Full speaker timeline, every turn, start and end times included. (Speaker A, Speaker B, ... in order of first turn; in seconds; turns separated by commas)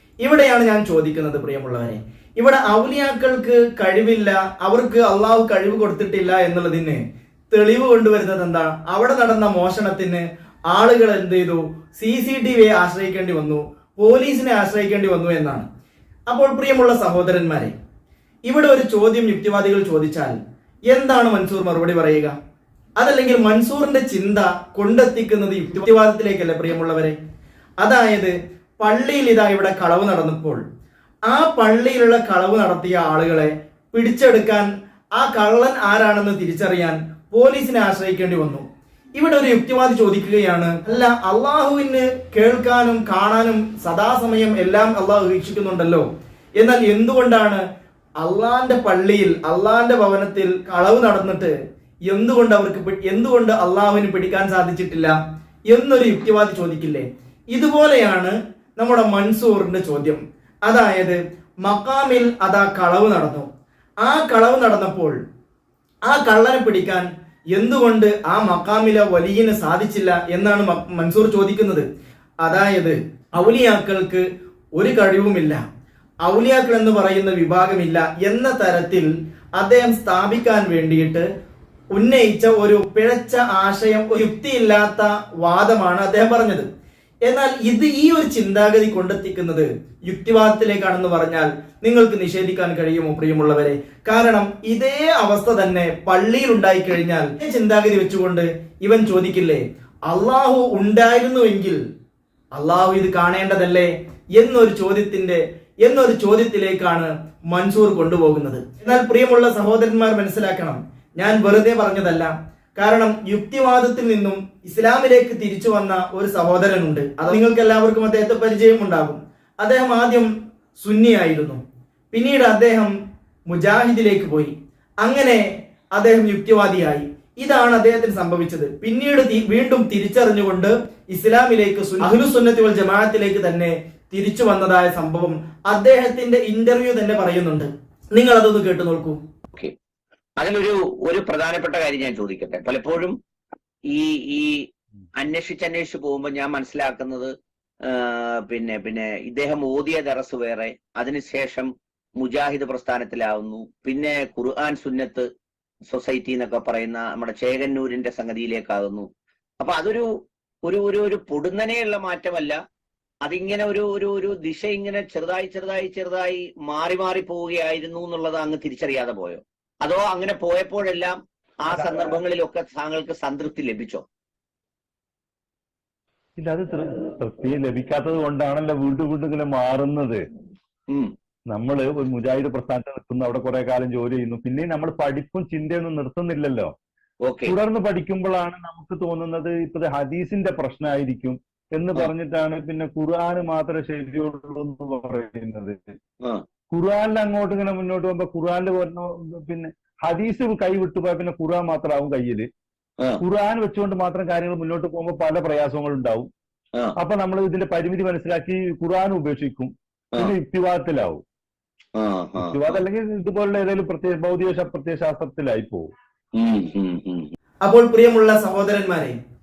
Speaker A: 0.2-7.0, Speaker A: 7.5-15.7, Speaker A: 16.3-17.7, Speaker A: 18.5-20.4, Speaker A: 20.9-22.3, Speaker A: 23.0-27.1, Speaker A: 27.8-30.6, Speaker A: 31.3-38.6, Speaker A: 39.1-46.0, Speaker A: 46.6-47.6, Speaker A: 48.2-51.5, Speaker A: 52.0-63.5, Speaker A: 64.0-65.1, Speaker A: 66.1-71.8, Speaker A: 72.4-74.2, Speaker A: 74.8-75.6, Speaker A: 76.2-81.2, Speaker A: 81.9-86.7, Speaker A: 87.2-101.8, Speaker A: 102.5-121.6, Speaker A: 122.1-122.9, Speaker A: 123.5-139.2, Speaker B: 140.4-143.2, Speaker B: 143.9-144.7, Speaker B: 145.2-147.3, Speaker B: 147.9-155.3, Speaker B: 155.9-159.1, Speaker B: 159.6-160.1, Speaker B: 160.6-162.6, Speaker B: 163.2-174.0, Speaker C: 176.4-180.2, Speaker C: 181.5-186.7, Speaker B: 187.2-187.5, Speaker C: 187.4-195.8, Speaker C: 196.7-202.5, Speaker C: 203.2-206.3, Speaker C: 207.0-211.2, Speaker B: 211.9-212.8, Speaker C: 212.4-215.9, Speaker B: 216.3-217.3, Speaker A: 217.6-219.1